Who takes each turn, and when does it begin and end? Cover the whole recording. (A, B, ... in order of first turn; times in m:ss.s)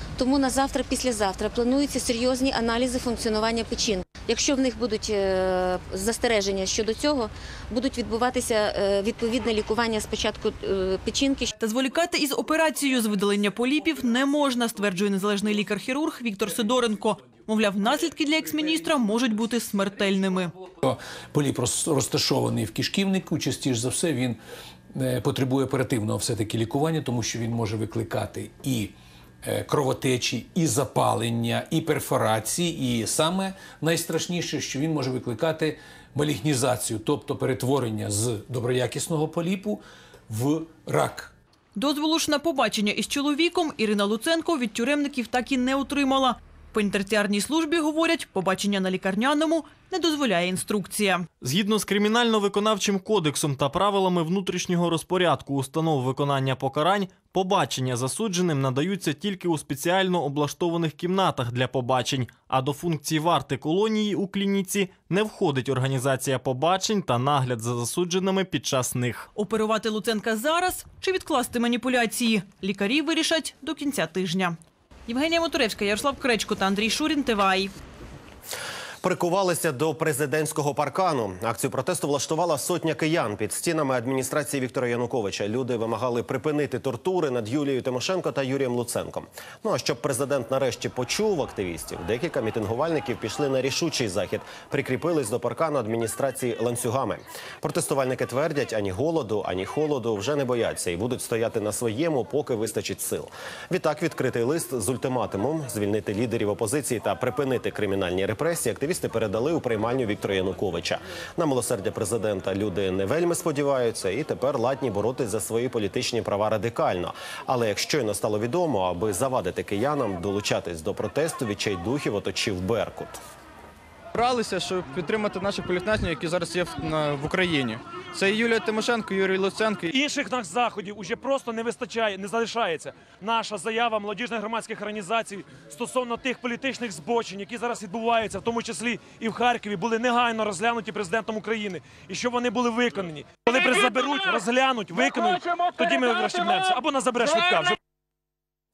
0:00.2-0:11.5 A
0:11.6-0:20.5 B
0:20.8-0:24.4 C
0:24.9-0:41.3 C
0:41.8-0:51.2 B
0:51.4-1:09.3 D
1:09.3-1:17.7 B
1:19.0-2:03.2 E
2:04.1-2:09.9 F
2:09.9-2:27.8 G